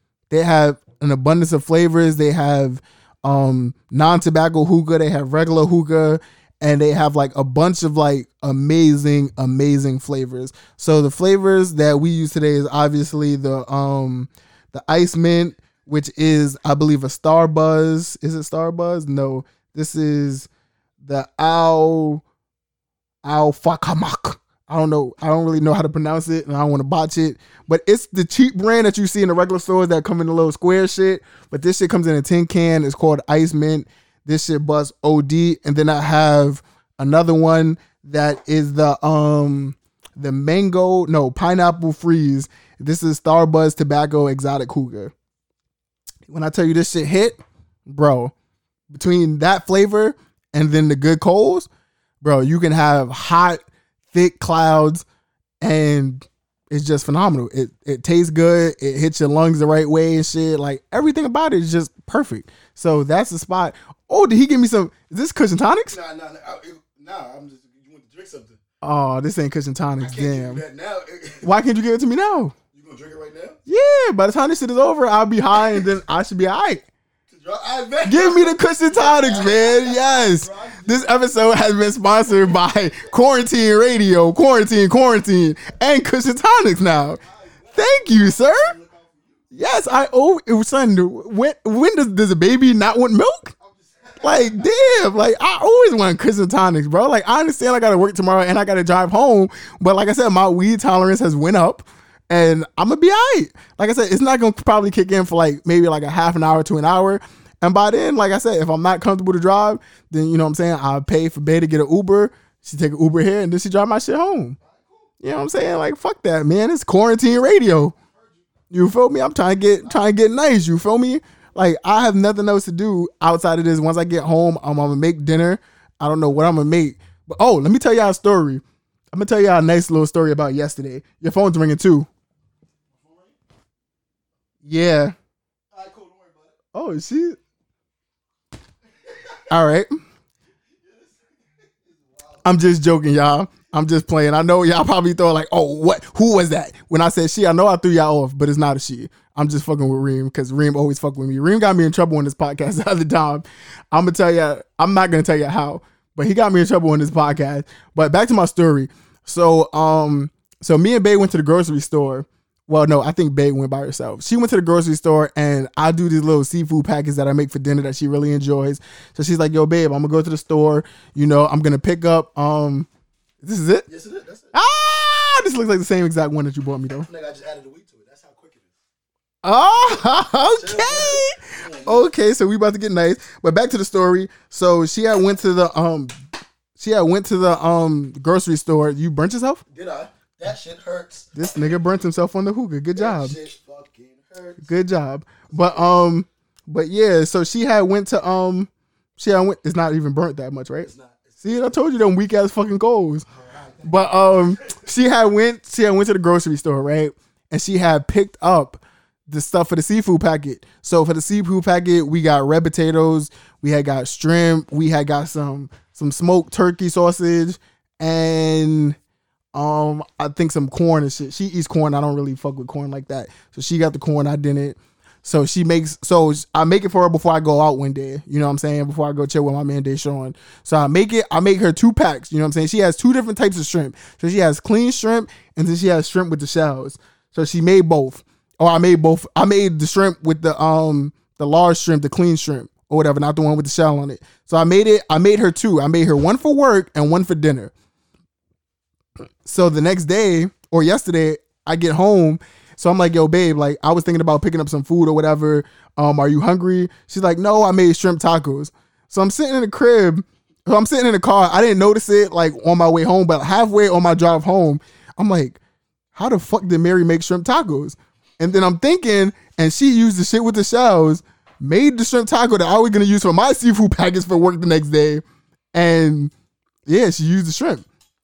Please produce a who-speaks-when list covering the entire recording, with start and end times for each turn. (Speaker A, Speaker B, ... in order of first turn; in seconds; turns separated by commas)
Speaker A: 0.3-20.5, Speaker A: 21.0-22.2, Speaker A: 23.2-45.1, Speaker A: 46.3-48.3, Speaker A: 48.9-51.7, Speaker A: 52.2-55.0, Speaker A: 55.6-66.0, Speaker B: 65.9-68.6, Speaker A: 68.8-70.6, Speaker B: 70.0-71.5, Speaker A: 71.4-72.5, Speaker B: 72.7-73.5, Speaker A: 73.7-76.8, Speaker B: 77.3-81.0, Speaker A: 78.0-87.2, Speaker A: 87.7-88.8, Speaker B: 88.6-89.2, Speaker A: 89.5-93.5, Speaker A: 94.2-114.6, Speaker A: 115.2-117.9, Speaker A: 118.7-132.1, Speaker B: 133.0-133.3, Speaker A: 134.6-135.1, Speaker B: 135.7-136.5, Speaker A: 136.7-137.4, Speaker A: 139.5-139.9, Speaker A: 142.4-172.9, Speaker A: 173.4-173.9, Speaker B: 173.9-174.5, Speaker A: 174.5-177.1, Speaker B: 177.1-178.7, Speaker A: 179.4-186.2, Speaker B: 180.6-182.1, Speaker A: 186.8-189.6, Speaker B: 189.7-191.3, Speaker A: 191.3-193.4, Speaker B: 192.9-194.6, Speaker A: 194.6-200.9, Speaker B: 200.9-201.2, Speaker A: 201.4-203.2, Speaker B: 203.5-203.8, Speaker A: 203.8-219.0, Speaker A: 219.5-247.7, Speaker A: 249.4-265.6, Speaker A: 266.1-275.2, Speaker A: 275.7-276.3, Speaker A: 276.9-277.8